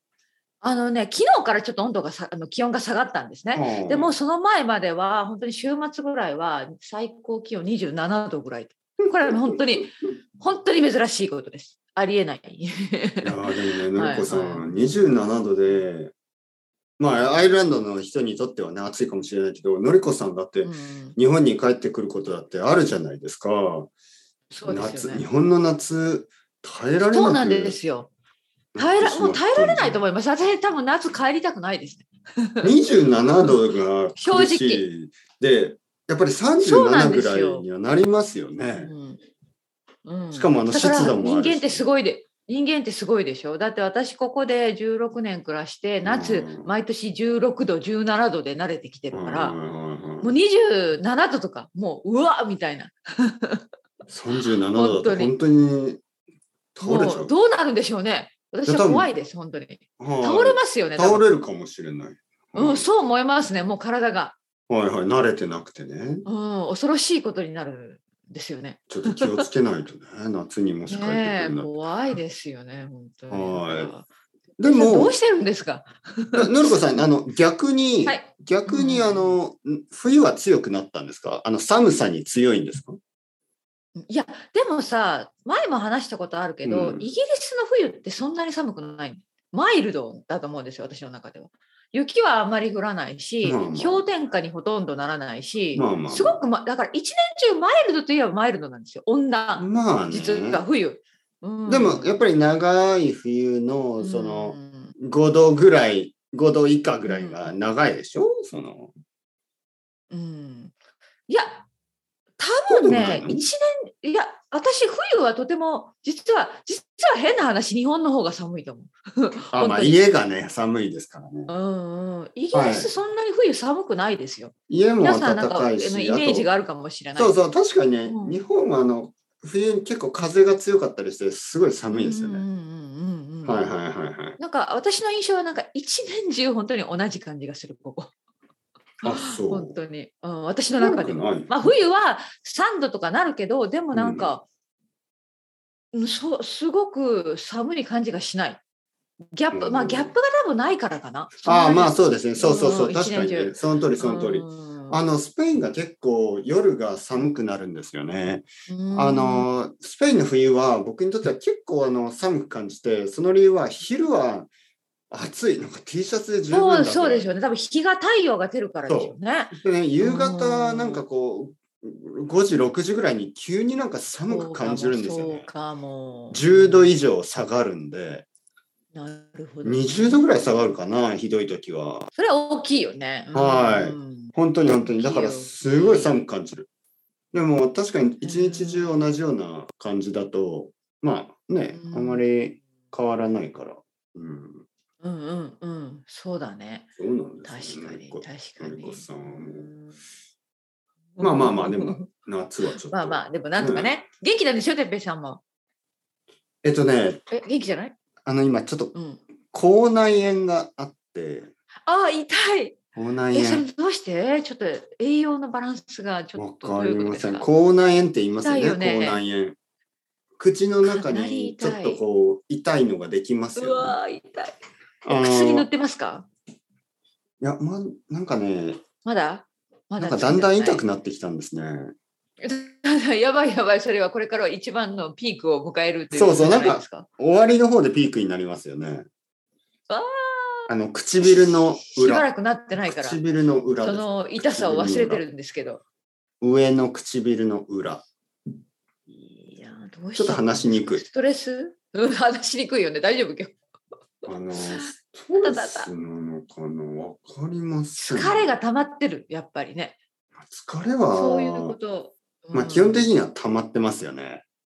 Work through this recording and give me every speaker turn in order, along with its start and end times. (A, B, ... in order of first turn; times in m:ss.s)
0:00.6-0:14.6 A
0:03.5-0:04.2 B
0:13.2-0:16.1 B
0:17.0-0:23.9 B
0:20.6-0:21.2 A
0:24.5-0:25.2 A
0:24.7-0:27.8 B
0:27.0-0:28.1 A
0:28.8-0:30.0 B
0:28.8-0:32.7 A
0:32.6-0:38.9 B
0:33.3-0:33.6 A
0:34.2-0:34.9 A
0:36.6-0:37.7 A
0:38.8-0:39.2 A
0:40.0-0:49.6 A
0:40.3-0:41.8 B
0:46.0-0:46.7 B
0:49.1-0:50.4 B
0:50.2-0:53.6 A
0:54.1-0:56.0 B
0:54.7-0:55.3 A
0:56.8-0:57.3 B
0:56.8-1:01.2 A
0:58.7-0:59.1 B
1:00.0-1:02.9 B
1:02.5-1:04.4 A
1:04.7-1:06.3 B
1:06.3-1:09.5 A
1:08.9-1:11.7 B
1:10.9-1:14.1 A
1:13.3-1:13.9 B
1:14.6-1:15.2 B
1:14.7-1:16.7 A
1:16.4-1:23.0 B
1:18.1-1:19.4 A
1:24.0-1:42.2 A
1:26.6-1:27.1 B
1:33.4-1:34.0 B
1:35.8-1:36.4 B
1:39.6-1:40.6 B
1:41.7-1:48.9 B
1:44.0-1:45.0 A
1:47.1-1:47.5 A
1:50.1-1:50.7 A
1:51.3-1:51.7 A
1:52.4-2:00.0 A
1:52.7-1:53.4 B
1:59.5-2:01.5 B
2:01.5-2:07.4 A
2:02.5-2:02.9 B
2:04.7-2:06.5 B
2:07.2-2:12.4 B
2:08.1-2:08.4 A
2:11.9-2:13.7 A
2:13.5-2:14.4 B
2:14.4-2:18.1 A
2:19.0-2:19.8 B
2:19.0-2:24.4 A
2:20.8-2:21.5 B
2:23.9-2:24.3 B
2:25.9-2:28.6 A
2:29.3-2:35.0 A
2:29.5-2:30.1 B
2:31.4-2:44.5 B
2:38.7-2:39.5 A
2:45.1-2:47.3 B
2:46.5-2:51.0 A
2:48.9-2:55.5 B
2:54.3-2:56.9 A
2:56.3-2:58.3 B
2:58.9-3:00.3 A
2:59.6-3:02.1 B
3:02.2-3:04.3 A
3:03.3-3:06.7 B
3:04.9-3:06.2 A
3:07.3-3:14.7 B
3:08.2-3:09.0 A
3:11.7-3:12.2 A
3:15.0-3:16.9 A
3:17.0-3:19.7 B
3:17.4-3:20.0 A
3:21.2-3:22.1 A
3:21.2-3:23.9 B
3:22.8-3:25.4 A
3:26.6-3:27.3 B
3:27.3-3:28.0 A
3:28.2-3:28.9 B
3:28.9-3:29.2 A
3:29.5-3:31.5 B
3:31.9-3:32.8 A
3:33.0-3:33.7 B
3:33.3-3:37.5 A
3:36.4-3:39.6 B
3:38.4-3:39.2 A
3:40.4-3:44.0 B
3:40.8-3:42.0 A
3:43.6-3:44.5 A
3:45.0-3:45.7 B
3:45.1-3:46.3 A
3:47.4-3:48.8 B
3:49.0-3:50.8 A
3:50.0-3:51.9 B
3:52.4-3:57.1 A
3:56.1-3:59.1 B
3:59.9-4:03.2 A
4:00.7-4:02.2 B
4:02.8-4:05.2 B
4:03.8-4:05.8 A
4:06.4-4:08.0 B
4:09.1-4:13.6 A
4:10.2-4:11.0 B
4:14.2-4:15.9 A
4:14.3-4:18.5 B
4:18.0-4:20.0 A
4:20.4-4:21.8 B
4:21.1-4:23.1 A
4:22.5-4:24.4 B